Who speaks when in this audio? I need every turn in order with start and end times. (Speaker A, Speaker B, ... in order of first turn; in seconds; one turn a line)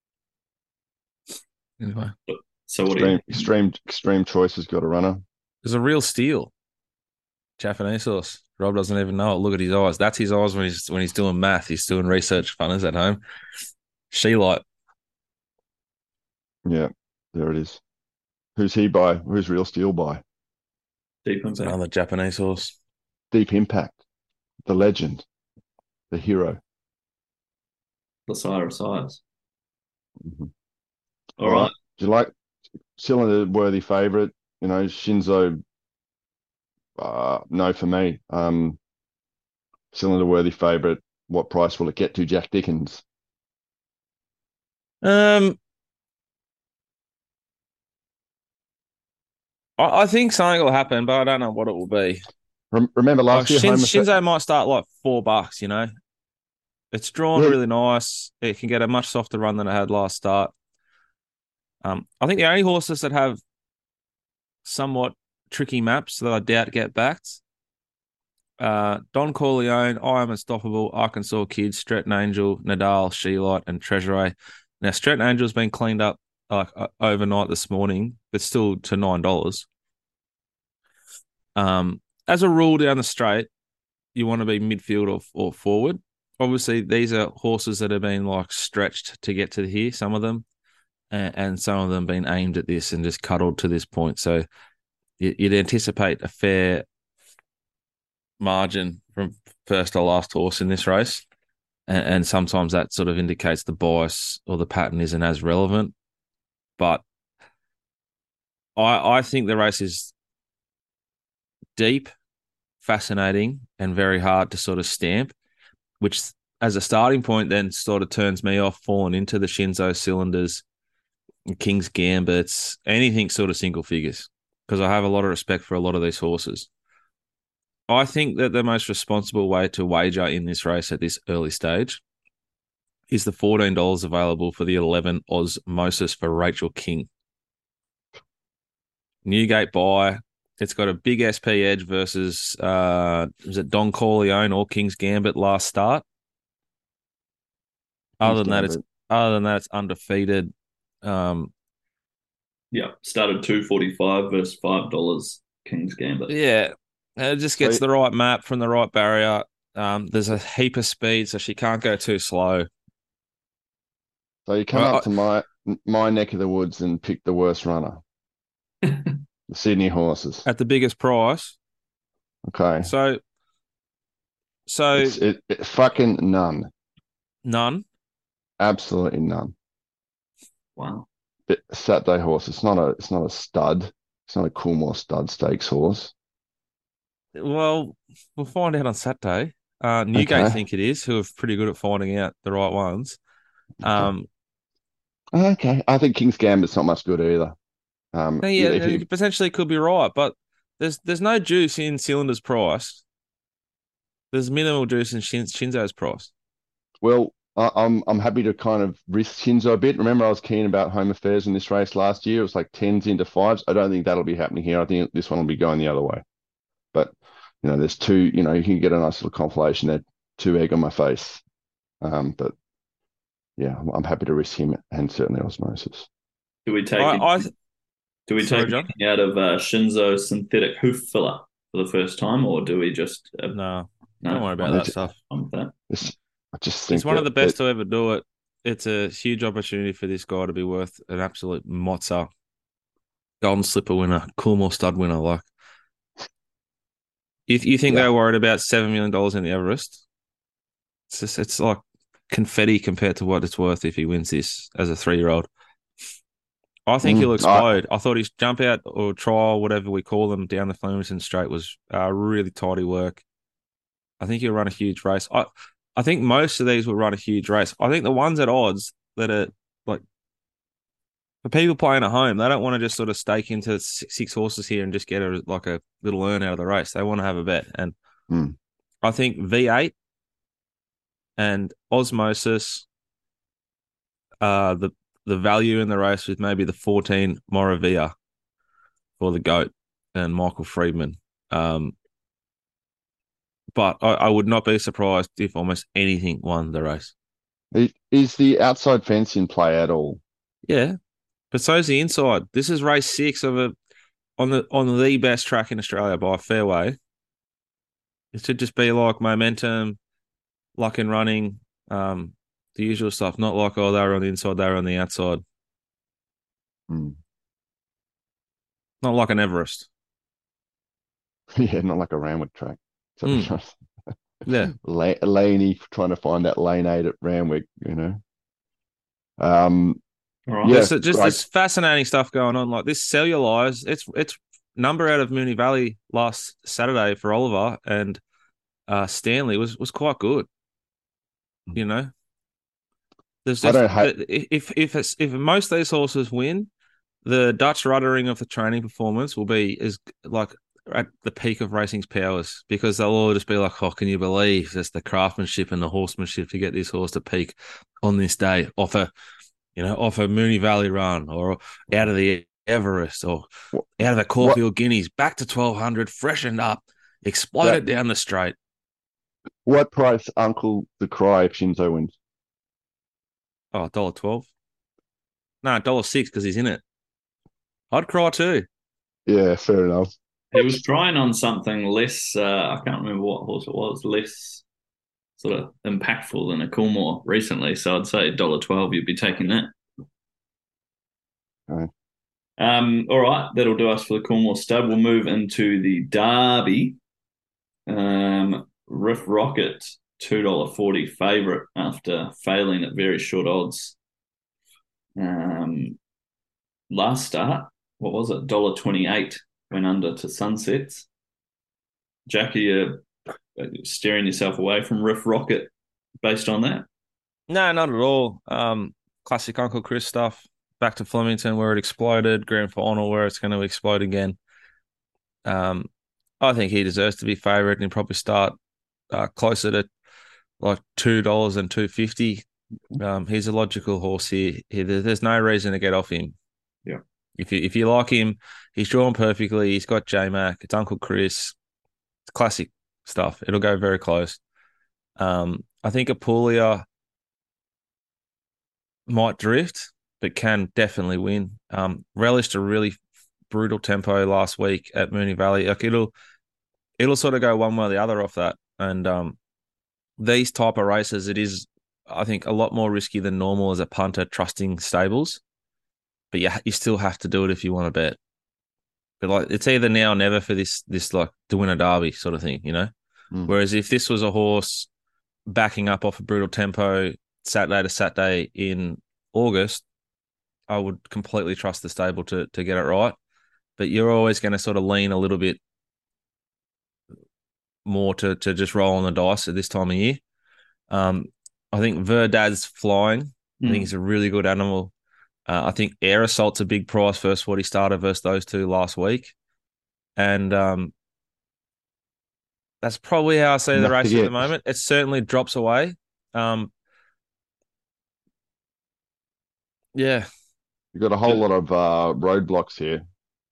Speaker A: 1.8-2.1
Speaker B: 2.3-3.4
Speaker C: 2.9-5.2
Speaker A: 5.6-6.5
Speaker A: 7.6-13.2
Speaker A: 14.1-14.6
Speaker C: 16.6-17.8
Speaker C: 18.6-20.2
Speaker B: 21.2-21.7
Speaker A: 21.6-22.7
Speaker C: 23.3-24.0
Speaker C: 24.6-25.2
Speaker C: 26.1-26.6
Speaker B: 28.3-29.2
Speaker C: 30.2-30.5
Speaker B: 31.4-31.7
Speaker C: 31.4-32.3
Speaker C: 33.0-35.6
Speaker C: 37.0-38.8
Speaker C: 39.9-43.0
Speaker A: 45.0-45.6
Speaker A: 49.8-52.2
Speaker C: 52.7-54.1
Speaker A: 53.3-55.9
Speaker A: 56.9-60.5
Speaker A: 61.8-63.4
Speaker A: 64.6-67.4
Speaker A: 68.6-79.7
Speaker A: 81.5-83.5
Speaker A: 84.1-90.4
Speaker A: 91.1-94.5
Speaker A: 95.2-96.8
Speaker A: 98.4-101.2
Speaker A: 101.9-105.9
Speaker A: 106.8-107.0
Speaker A: 108.8-110.1
Speaker A: 111.8-112.1
Speaker A: 112.8-115.3
Speaker A: 116.0-120.6
Speaker A: 121.5-126.7
Speaker A: 127.9-132.0
Speaker A: 133.1-137.1
Speaker A: 139.2-146.0
Speaker A: 148.2-151.5
Speaker C: 148.2-148.8
Speaker B: 152.7-156.3
Speaker A: 156.3-162.7
Speaker C: 164.5-168.0
Speaker A: 164.7-165.1
Speaker B: 168.8-169.2
Speaker C: 169.5-170.4
Speaker A: 170.4-171.6
Speaker C: 172.4-172.9
Speaker A: 172.8-173.2
Speaker A: 174.7-175.2
Speaker C: 174.9-176.7
Speaker A: 177.4-177.8
Speaker C: 178.6-179.5
Speaker B: 180.8-181.1
Speaker C: 181.5-186.1
Speaker A: 187.3-193.2
Speaker C: 190.2-190.6
Speaker A: 193.8-194.3
Speaker C: 195.3-197.5
Speaker C: 198.1-199.0
Speaker A: 198.4-203.0
Speaker A: 204.3-206.3
Speaker C: 207.0-216.2
Speaker C: 216.9-221.4
Speaker C: 222.0-222.5
Speaker C: 223.6-226.1
Speaker B: 226.7-227.5
Speaker A: 227.0-227.5
Speaker B: 228.3-233.6
Speaker A: 228.4-228.9
Speaker A: 233.5-235.2
Speaker B: 234.2-235.7
Speaker C: 235.9-237.6
Speaker A: 236.9-242.3
Speaker A: 243.4-245.5
Speaker A: 247.5-250.0
Speaker A: 251.1-255.5
Speaker A: 256.9-263.2
Speaker C: 257.0-257.7
Speaker A: 264.2-270.0
Speaker A: 271.4-277.9
Speaker C: 278.3-278.5
Speaker A: 279.0-279.9
Speaker A: 281.4-282.9
Speaker A: 284.4-288.1
Speaker A: 289.2-291.9
Speaker A: 293.7-297.1
Speaker C: 297.7-300.2
Speaker A: 300.6-300.9
Speaker A: 301.5-303.7
Speaker A: 304.4-307.0
Speaker A: 308.3-310.0
Speaker A: 310.8-315.4
Speaker C: 316.9-317.2
Speaker A: 319.0-319.9
Speaker C: 321.5-323.8
Speaker A: 324.4-324.7
Speaker C: 324.7-328.2
Speaker C: 329.4-330.0
Speaker B: 330.5-330.8
Speaker C: 330.6-331.4
Speaker A: 330.6-338.2
Speaker A: 338.9-340.5
Speaker A: 341.7-342.1
Speaker A: 343.4-346.7
Speaker C: 343.6-344.1
Speaker A: 347.2-359.1
Speaker A: 359.7-363.5
Speaker A: 364.0-368.5
Speaker C: 369.6-372.1
Speaker A: 373.7-374.5
Speaker A: 375.6-376.8
Speaker A: 377.9-378.7
Speaker C: 379.3-380.8
Speaker B: 380.5-384.6
Speaker B: 385.4-389.7
Speaker B: 392.6-397.0
Speaker B: 397.9-403.9
Speaker B: 405.2-406.0
Speaker B: 406.9-411.1
Speaker B: 412.3-413.0
Speaker B: 413.6-415.7
Speaker B: 416.2-416.9
Speaker A: 417.5-424.4
Speaker A: 425.4-425.9
Speaker A: 426.4-428.6
Speaker A: 429.1-429.9
Speaker A: 430.6-432.4
Speaker A: 433.0-436.4
Speaker A: 437.4-441.5
Speaker A: 442.3-444.4
Speaker A: 445.2-446.8
Speaker A: 449.1-452.9
Speaker A: 453.5-456.1
Speaker A: 457.0-459.4
Speaker A: 460.2-465.4
Speaker A: 466.3-468.2
Speaker A: 469.2-472.9
Speaker A: 473.5-474.9
Speaker A: 475.5-479.8
Speaker A: 480.7-483.1
Speaker A: 483.8-485.6
Speaker A: 487.8-490.2
Speaker A: 490.9-494.9
Speaker B: 493.6-493.9
Speaker A: 495.5-499.3
Speaker A: 500.2-500.9
Speaker A: 502.8-506.7
Speaker C: 503.7-504.5
Speaker A: 509.9-510.3
Speaker C: 510.9-513.0